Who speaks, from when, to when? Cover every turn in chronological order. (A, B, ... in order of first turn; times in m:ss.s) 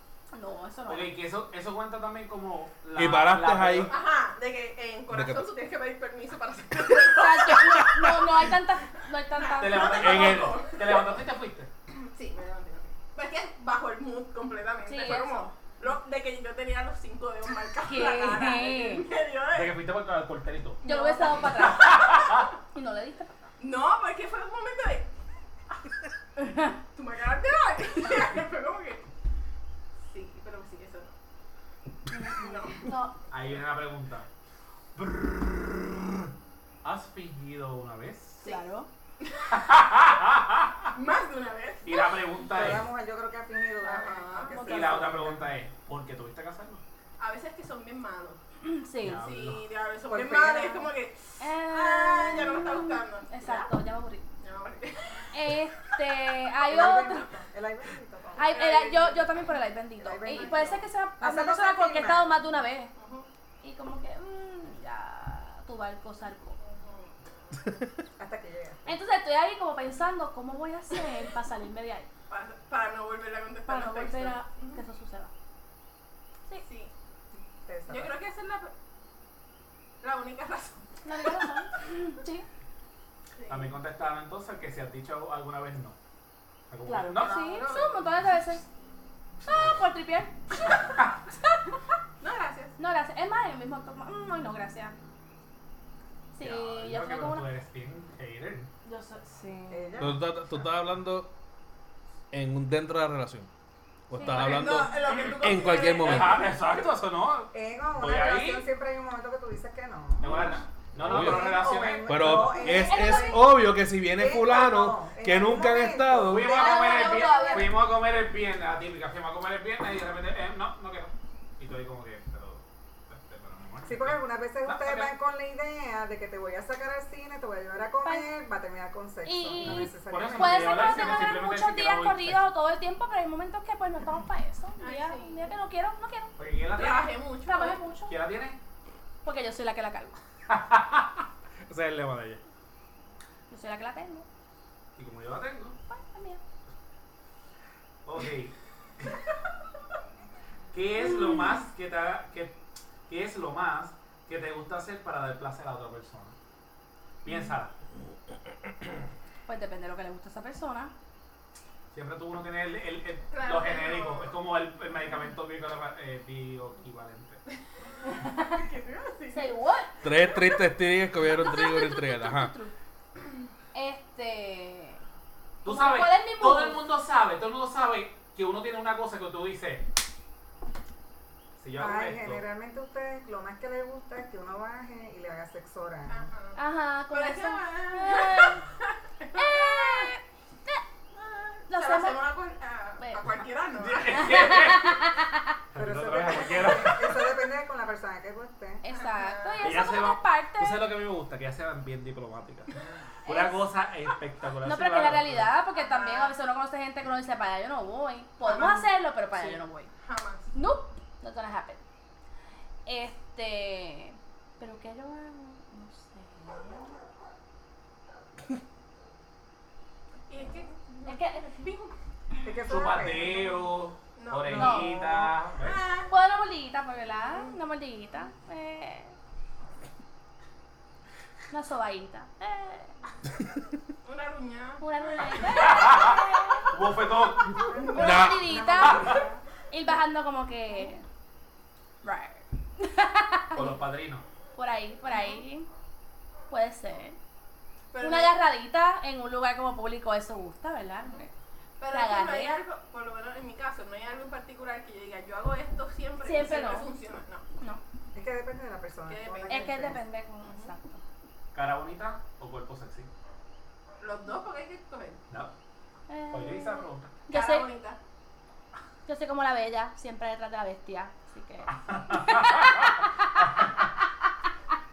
0:00.3-0:01.2 A
0:00.9-0:03.9 B
0:03.0-0:03.9 C
0:03.8-0:07.8 D
0:05.1-0:05.5 C
0:07.1-0:10.4 A
0:07.7-0:08.0 C
0:09.4-0:11.2 D
0:09.6-0:11.7 B
0:10.0-0:10.5 C
0:11.9-0:19.8 D
0:14.9-0:15.6 A
0:17.8-0:19.1 A
0:19.5-0:20.8 B
0:20.8-0:22.2 D
0:20.8-0:23.4 A
0:21.6-0:22.5 B
0:23.6-0:25.1 D
0:26.4-0:26.8 A
0:26.9-0:29.0 D
0:30.0-0:31.2 D
0:32.1-0:33.2 A
0:32.3-0:33.1 D
0:33.3-0:34.3 B
0:35.0-0:35.9 B
0:36.8-0:38.4 B
0:38.4-0:38.9 A
0:39.2-0:39.5 D
0:39.5-0:40.9 B
0:40.9-0:42.5 D
0:41.8-0:42.9 B
0:42.5-0:45.5 E
0:43.8-0:44.8 D
0:44.5-0:44.9 A
0:44.6-0:46.8 B
0:47.2-0:48.4 D
0:48.6-0:49.2 A
0:49.0-0:49.7 B
0:49.1-0:53.7 D
0:50.1-0:50.9 E
0:51.4-0:54.3 A
0:54.4-0:55.4 D
0:55.3-0:57.3 A
0:56.6-0:58.6 E
0:58.4-1:02.9 A
0:58.4-0:59.4 D
1:00.0-1:02.4 E
1:00.3-1:00.9 D
1:03.0-1:03.3 D
1:03.6-1:06.6 A
1:06.6-1:07.2 D
1:08.2-1:09.0 E
1:08.9-1:12.1 A
1:12.3-1:14.8 D
1:13.7-1:15.3 A
1:16.6-1:16.9 D
1:17.6-1:18.2 E
1:17.9-1:18.7 D
1:20.0-1:20.8 D
1:21.0-1:22.5 A
1:23.3-1:23.8 D
1:23.5-1:26.0 B
1:26.7-1:27.6 B
1:26.8-1:28.7 A
1:27.1-1:27.9 D
1:29.5-1:30.4 A
1:29.5-1:29.8 B
1:32.2-1:32.8 D
1:32.8-1:35.0 A
1:36.3-1:37.5 A
1:36.4-1:38.7 B
1:38.8-1:40.0 A
1:39.7-1:40.5 E
1:40.0-1:41.3 C
1:42.3-1:43.5 C
1:44.1-1:46.5 C
1:44.1-1:44.5 A
1:44.3-1:48.7 B
1:44.3-1:46.6 D
1:47.5-1:57.7 E
1:50.2-1:52.8 B
1:51.0-1:56.5 C
1:52.7-1:53.5 A
1:56.2-2:05.2 B
1:56.5-1:57.9 A
2:03.8-2:11.3 E
2:08.0-2:08.3 A
2:09.2-2:16.4 A
2:09.6-2:12.5 B
2:14.8-2:15.5 D
2:16.4-2:17.2 B
2:16.7-2:17.8 D
2:17.4-2:18.2 A
2:18.1-2:18.6 B
2:19.2-2:20.2 A
2:20.5-2:22.4 B
2:23.5-2:24.3 A
2:25.0-2:25.8 B
2:25.9-2:26.4 A
2:28.0-2:29.2 B
2:30.7-2:36.4 B
2:31.0-2:31.6 A
2:37.2-2:37.8 B
2:39.5-2:40.9 A
2:41.9-2:47.4 B
2:43.3-2:44.4 D
2:48.2-2:48.6 A
2:48.4-2:50.2 D
2:49.3-2:50.0 A
2:50.0-2:52.5 C
2:51.3-2:52.7 A
2:53.7-2:55.0 A
2:55.6-2:59.9 B
2:55.6-2:56.8 A
3:01.6-3:02.4 B
3:01.8-3:06.3 E
3:06.1-3:10.1 D
3:06.6-3:08.6 A
3:09.3-3:10.8 A
3:11.2-3:14.5 D
3:11.7-3:12.2 A
3:13.0-3:13.4 A
3:13.7-3:15.0 B
3:14.2-3:15.6 A
3:15.7-3:17.4 B
3:15.8-3:18.8 E
3:18.8-3:20.8 A
3:18.9-3:19.9 D
3:19.6-3:25.5 B
3:23.2-3:23.7 A
3:24.6-3:29.9 A
3:25.7-3:26.4 D
3:28.4-3:30.5 D
3:30.5-3:31.8 A
3:32.9-3:37.0 A
3:40.3-3:41.9 D
3:41.0-3:41.9 A
3:42.4-3:43.6 E
3:42.6-3:45.8 B
3:44.2-3:46.1 D
3:44.5-3:45.1 A
3:46.1-3:49.2 A
3:51.5-3:53.0 A
3:54.0-3:55.8 D
3:54.8-3:56.8 A
3:55.4-3:56.2 B
3:56.7-3:57.7 B
3:57.5-3:58.3 D
3:57.7-3:59.4 E
3:57.9-4:01.0 A
3:57.9-3:58.5 C
3:58.8-3:59.2 B
4:02.0-4:03.8 A
4:03.5-4:04.2 B
4:04.6-4:05.7 A
4:05.1-4:05.4 D
4:06.5-4:07.2 A
4:07.9-4:08.4 D
4:08.0-4:11.3 A
4:11.8-4:17.4 D
4:11.9-4:12.6 A
4:16.2-4:16.9 A
4:18.1-4:20.0 E
4:19.1-4:20.7 D
4:19.5-4:21.0 A
4:21.5-4:23.1 B
4:24.0-4:25.2 D
4:26.1-4:27.7 A
4:26.3-4:27.2 B
4:27.3-4:28.0 D
4:29.1-4:34.1 A
4:31.9-4:32.9 B